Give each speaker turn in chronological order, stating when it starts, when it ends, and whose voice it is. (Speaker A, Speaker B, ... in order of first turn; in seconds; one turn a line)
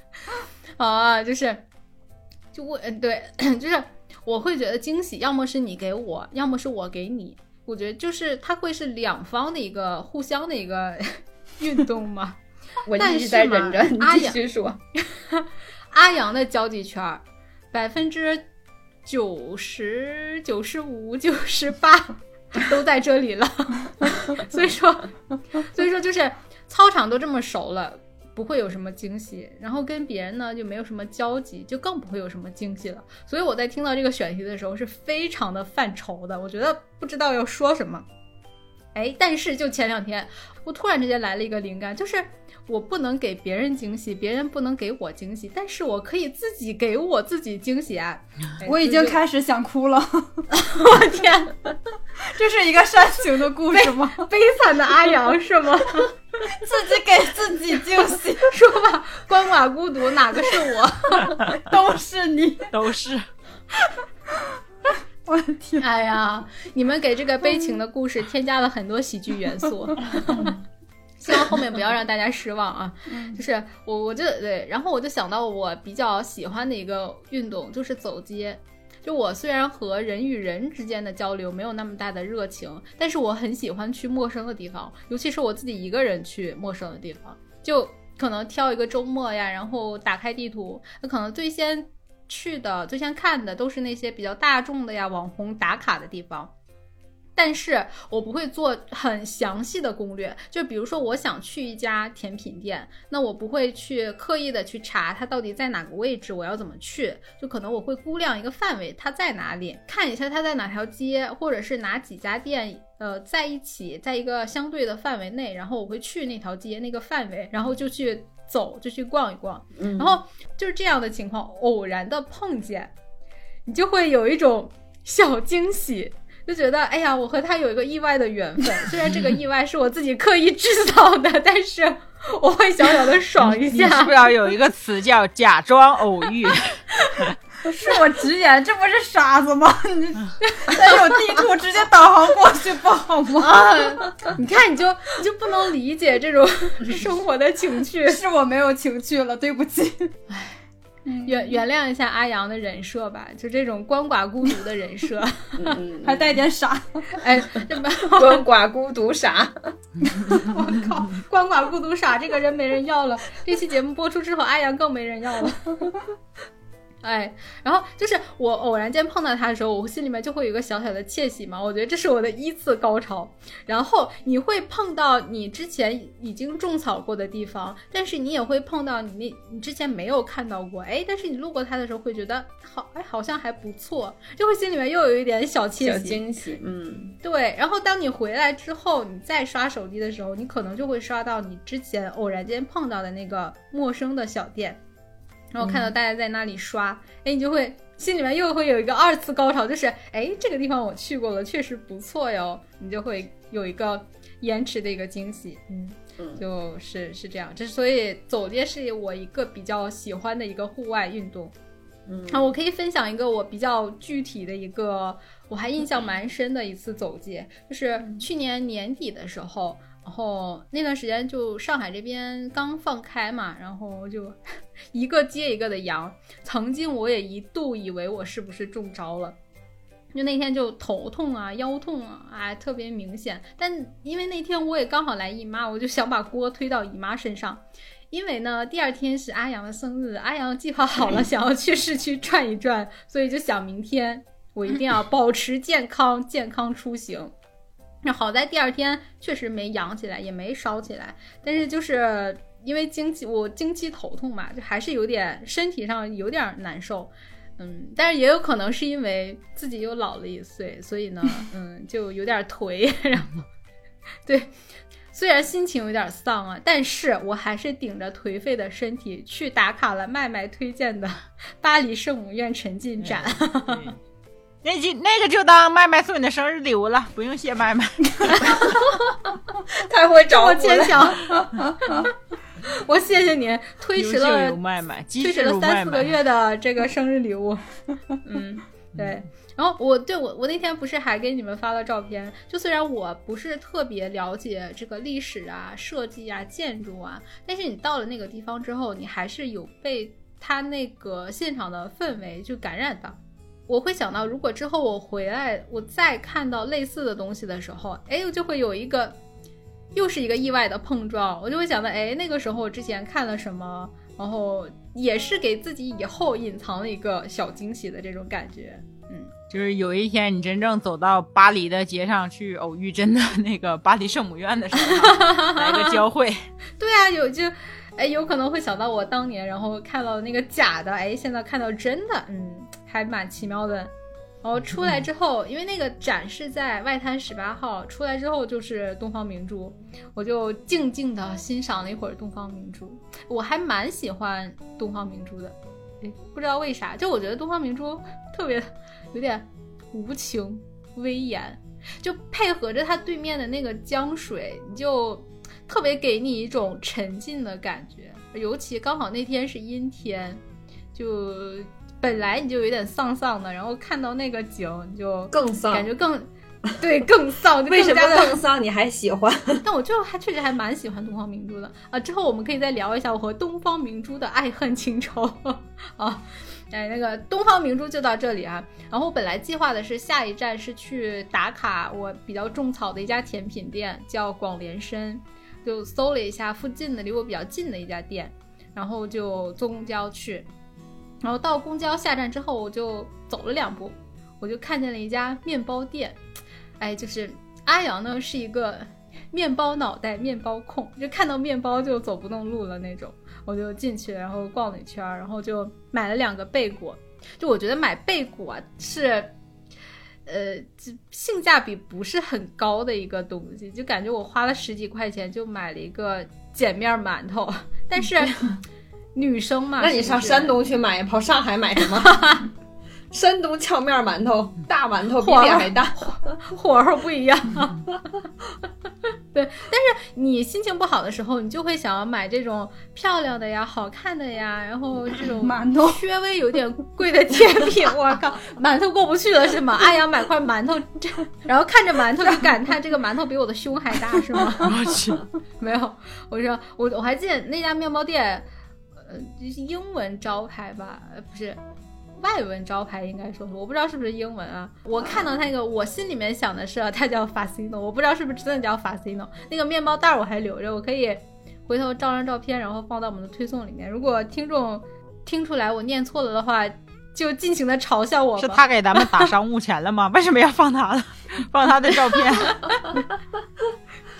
Speaker A: 0.8-1.6
Speaker A: 2.5-12.4
Speaker B: 12.8-14.8
Speaker A: 12.9-14.4
Speaker A: 15.0-18.4
Speaker A: 19.1-38.0
Speaker A: 38.9-49.2
Speaker C: 48.6-50.5
Speaker A: 50.5-51.6
Speaker C: 52.2-54.3
Speaker A: 53.7-56.1
Speaker C: 56.5-58.5
Speaker A: 58.5-61.4
Speaker C: 61.5-62.7
Speaker D: 62.7-63.2
Speaker C: 64.3-64.6
Speaker C: 65.2-65.8
Speaker A: 65.8-70.6
Speaker A: 71.2-96.5
Speaker C: 73.1-73.4
Speaker A: 97.3-122.9
Speaker B: 119.8-120.2
Speaker A: 123.7-134.2
Speaker D: 133.5-137.3
Speaker C: 137.6-143.7
Speaker A: 140.5-141.2
Speaker A: 143.4-148.2
Speaker C: 148.1-150.2
Speaker C: 151.1-151.6
Speaker A: 151.2-155.8
Speaker B: 155.6-156.3
Speaker C: 156.0-157.2
Speaker A: 157.2-158.4
Speaker B: 158.0-159.7
Speaker A: 160.3-165.9
Speaker A: 167.0-186.2
Speaker B: 185.8-187.2
Speaker A: 187.2-194.8
Speaker A: 195.5-211.5
Speaker B: 195.6-195.9
Speaker B: 212.1-212.5
Speaker A: 212.3-224.4
Speaker A: 224.9-229.3
Speaker A: 230.1-247.3
Speaker A: 248.0-263.4
Speaker A: 264.2-264.5
Speaker A: 265.1-273.9
Speaker D: 273.0-273.9
Speaker D: 274.6-278.7
Speaker A: 278.3-278.7
Speaker B: 279.7-281.2
Speaker A: 280.3-284.6
Speaker D: 283.9-286.1
Speaker A: 285.2-287.6
Speaker B: 288.3-288.6
Speaker A: 288.3-309.2
Speaker A: 309.9-319.3
Speaker D: 319.5-326.4
Speaker A: 324.9-326.0
Speaker A: 326.8-333.9
Speaker A: 334.4-360.4
Speaker A: 360.9-368.4
Speaker B: 365.3-365.9
Speaker B: 367.7-369.6
Speaker A: 369.6-390.5
Speaker A: 391.2-396.2
Speaker A: 396.8-409.3
Speaker A: 410.2-418.4
Speaker A: 419.1-420.6
Speaker B: 419.8-422.4
Speaker A: 422.0-422.4
Speaker B: 423.1-426.1
Speaker A: 425.2-427.9
Speaker A: 429.3-444.7
Speaker C: 435.4-436.0
Speaker D: 444.6-445.2
Speaker A: 445.6-448.4
Speaker A: 449.0-451.6
Speaker A: 452.2-469.3
Speaker D: 468.4-472.8
Speaker A: 472.4-473.0